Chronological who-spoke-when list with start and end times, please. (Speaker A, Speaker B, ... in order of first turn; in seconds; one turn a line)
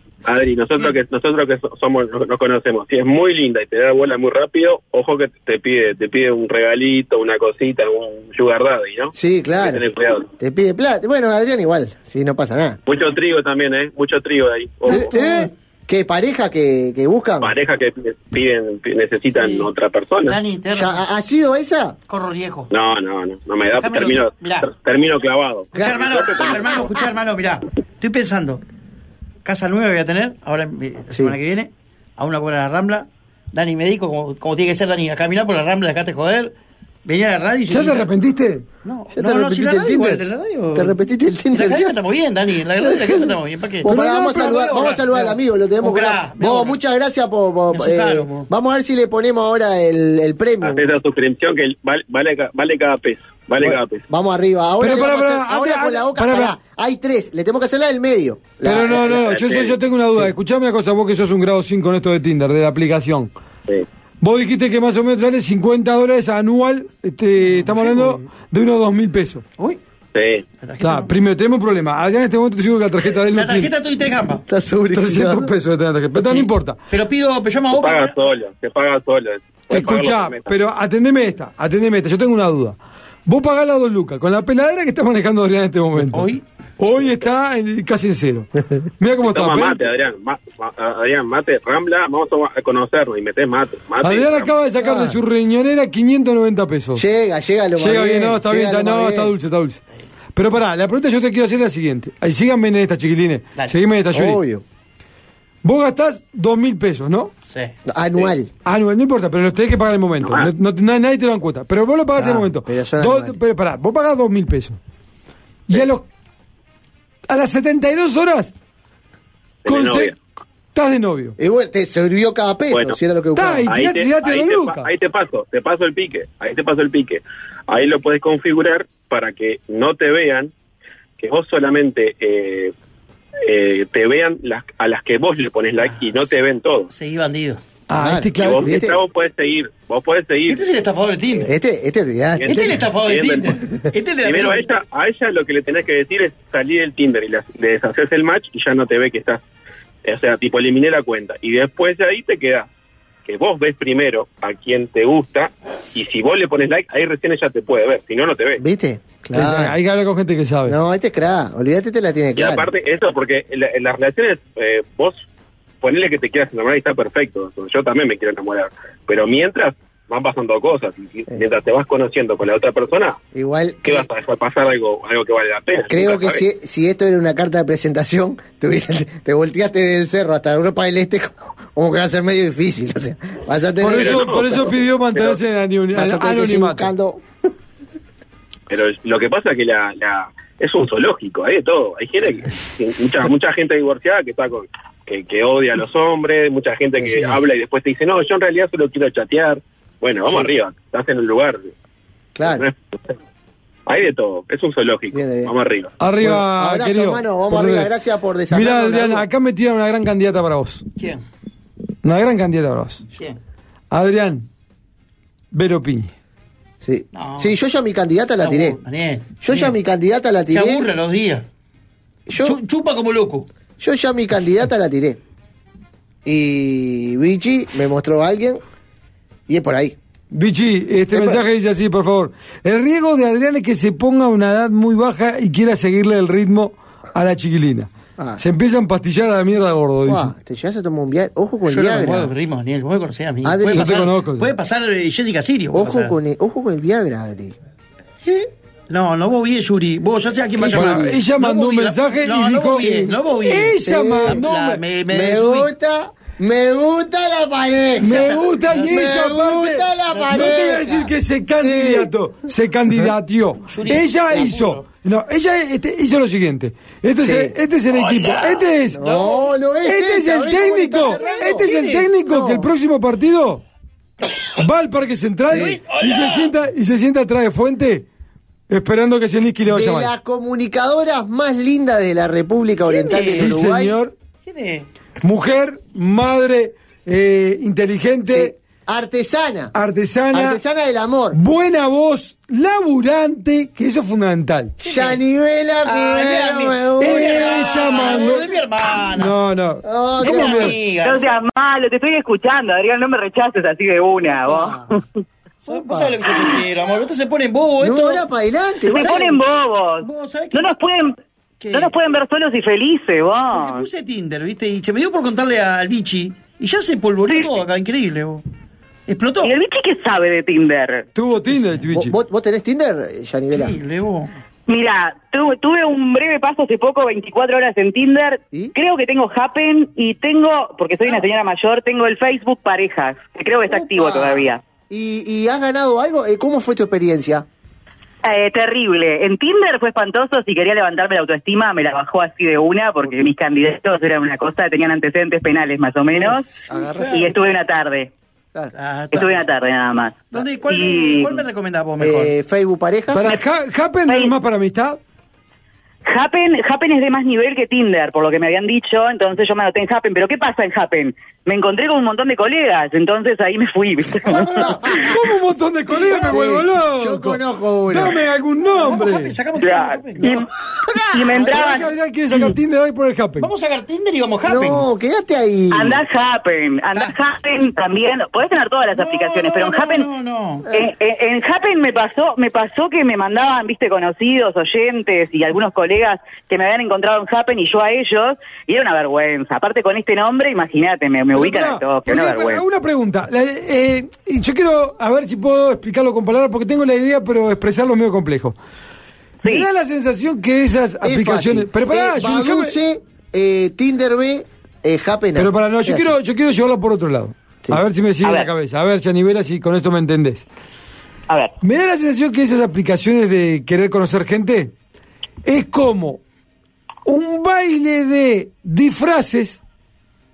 Speaker A: 0.2-10.3
Speaker B: 9.1-9.8
Speaker B: 10.4-12.8
Speaker A: 12.9-15.1
Speaker B: 14.9-17.5
Speaker C: 14.9-15.5
Speaker A: 17.4-20.4
Speaker C: 19.4-19.7
Speaker C: 20.3-21.0
Speaker B: 20.7-22.0
Speaker C: 22.1-22.7
Speaker A: 22.7-26.9
Speaker C: 23.8-24.7
Speaker B: 25.8-26.9
Speaker C: 25.8-28.6
Speaker C: 29.4-38.1
Speaker D: 37.7-38.6
Speaker C: 38.8-41.0
Speaker B: 39.1-40.2
Speaker B: 40.7-42.0
Speaker C: 41.5-46.8
Speaker B: 42.8-50.9
Speaker D: 43.9-44.6
Speaker C: 47.7-48.5
Speaker A: 50.6-54.0
Speaker B: 53.6-59.4
Speaker D: 54.8-56.5
Speaker D: 58.6-63.3
Speaker A: 59.1-59.8
Speaker D: 64.2-69.4
Speaker C: 67.4-68.3
Speaker A: 70.1-70.5
Speaker C: 70.6-71.2
Speaker D: 70.8-73.7
Speaker C: 73.3-74.5
Speaker B: 74.5-75.5
Speaker D: 74.9-76.8
Speaker C: 76.2-78.2
Speaker A: 77.7-80.6
Speaker D: 79.7-89.9
Speaker C: 86.0-86.4
Speaker A: 89.2-94.5
Speaker D: 94.0-97.0
Speaker B: 94.8-95.2
Speaker B: 97.0-99.3
Speaker D: 97.8-99.8
Speaker D: 100.3-104.4
Speaker B: 104.1-104.6
Speaker D: 105.6-107.3
Speaker C: 107.5-108.3
Speaker B: 107.9-108.5
Speaker D: 108.7-114.8
Speaker A: 110.2-110.5
Speaker B: 112.2-113.4
Speaker D: 115.7-116.1
Speaker D: 117.3-118.5
Speaker A: 119.6-120.2
Speaker D: 119.7-120.2
Speaker D: 120.7-121.4
Speaker B: 121.4-123.7
Speaker A: 122.7-123.0
Speaker D: 123.3-124.9
Speaker A: 123.7-130.5
Speaker A: 131.2-132.7
Speaker A: 133.5-136.9
Speaker C: 136.9-137.6
Speaker D: 137.9-138.9
Speaker B: 138.0-139.0
Speaker A: 138.3-140.6
Speaker C: 140.5-141.5
Speaker B: 141.4-142.8
Speaker A: 142.4-143.6
Speaker C: 142.4-144.7
Speaker A: 144.2-149.4
Speaker A: 150.1-152.7
Speaker A: 153.2-158.6
Speaker B: 158.6-159.8
Speaker D: 159.3-160.8
Speaker B: 160.7-162.7
Speaker A: 162.4-165.2
Speaker A: 165.8-173.2
Speaker B: 173.3-174.1
Speaker A: 173.8-176.4
Speaker B: 175.9-184.7
Speaker D: 183.8-186.9
Speaker A: 183.9-185.4
Speaker B: 185.9-187.2
Speaker A: 188.7-201.6
Speaker B: 202.4-202.7
Speaker A: 202.4-202.8
Speaker A: 203.9-205.9
Speaker B: 205.1-205.5
Speaker D: 206.0-207.9
Speaker B: 206.2-209.3
Speaker D: 208.5-210.8
Speaker C: 211.0-211.2
Speaker D: 212.0-213.0
Speaker D: 213.9-214.5
Speaker D: 215.5-216.1
Speaker B: 216.8-218.8
Speaker C: 217.1-217.6
Speaker C: 218.4-219.8
Speaker B: 219.4-220.9
Speaker C: 220.5-221.5
Speaker B: 222.3-222.6
Speaker C: 222.4-223.5
Speaker B: 223.8-225.2
Speaker B: 226.2-228.6
Speaker B: 229.5-230.0
Speaker D: 230.3-240.3
Speaker B: 231.1-231.4
Speaker B: 240.1-242.3
Speaker C: 241.7-246.2
Speaker B: 243.4-243.9
Speaker D: 243.7-244.5
Speaker B: 245.7-247.6
Speaker C: 248.2-255.7
Speaker B: 250.6-251.1
Speaker D: 250.7-254.8
Speaker B: 253.8-254.4
Speaker B: 255.1-262.1
Speaker D: 258.0-269.1
Speaker C: 258.0-259.0
Speaker C: 260.1-260.6
Speaker C: 263.7-264.8
Speaker B: 267.2-267.6
Speaker C: 267.9-269.5
Speaker B: 268.9-271.7
Speaker D: 269.9-273.6
Speaker C: 271.0-272.1
Speaker B: 272.2-272.7
Speaker D: 274.6-278.1
Speaker B: 275.5-275.8
Speaker C: 275.5-276.5
Speaker D: 278.7-280.1
Speaker B: 279.7-284.0
Speaker C: 282.9-283.6
Speaker D: 283.2-284.1
Speaker C: 284.4-284.9
Speaker D: 285.2-288.6
Speaker B: 288.3-289.7
Speaker D: 289.8-290.6
Speaker B: 290.3-291.4
Speaker D: 291.3-294.8
Speaker C: 294.8-295.2
Speaker B: 294.8-298.4
Speaker C: 295.9-299.4
Speaker D: 297.0-298.5
Speaker D: 299.1-300.7
Speaker B: 299.8-300.8
Speaker C: 300.2-301.4
Speaker E: 301.0-305.0
Speaker B: 304.5-304.8
Speaker B: 305.7-306.2
Speaker C: 305.7-308.2
Speaker B: 307.8-309.4
Speaker E: 308.9-311.2
Speaker C: 309.0-309.3
Speaker C: 310.0-310.8
Speaker C: 311.6-311.9
Speaker E: 311.7-313.9
Speaker C: 313.5-318.4
Speaker C: 319.1-319.5
Speaker E: 319.4-321.1
Speaker D: 321.1-322.1
Speaker C: 321.5-321.8
Speaker B: 321.9-323.8
Speaker C: 323.5-324.4
Speaker E: 324.7-334.6
Speaker B: 333.7-337.5
Speaker E: 338.2-346.5
Speaker B: 346.1-347.4
Speaker C: 346.7-347.3
Speaker E: 347.1-348.1
Speaker C: 348.7-349.4
Speaker E: 349.1-351.4
Speaker C: 350.3-352.4
Speaker B: 352.0-353.3
Speaker D: 353.1-355.0
Speaker E: 354.1-354.4
Speaker E: 356.1-365.1
Speaker B: 364.6-365.2
Speaker D: 365.0-369.3
Speaker B: 366.1-368.2
Speaker C: 368.7-370.5
Speaker E: 369.6-370.5
Speaker E: 371.1-371.9
Speaker C: 371.3-371.9
Speaker D: 371.4-373.5
Speaker C: 373.4-374.9
Speaker B: 374.5-376.0
Speaker E: 375.7-380.1
Speaker C: 378.9-380.7
Speaker E: 380.7-392.6
Speaker D: 391.3-398.6
Speaker E: 399.4-399.7
Speaker D: 399.4-402.8
Speaker B: 401.0-406.1
Speaker D: 405.4-410.5
Speaker E: 408.2-408.5
Speaker E: 411.3-411.6
Speaker D: 411.6-414.7
Speaker D: 415.4-416.2
Speaker D: 417.1-419.6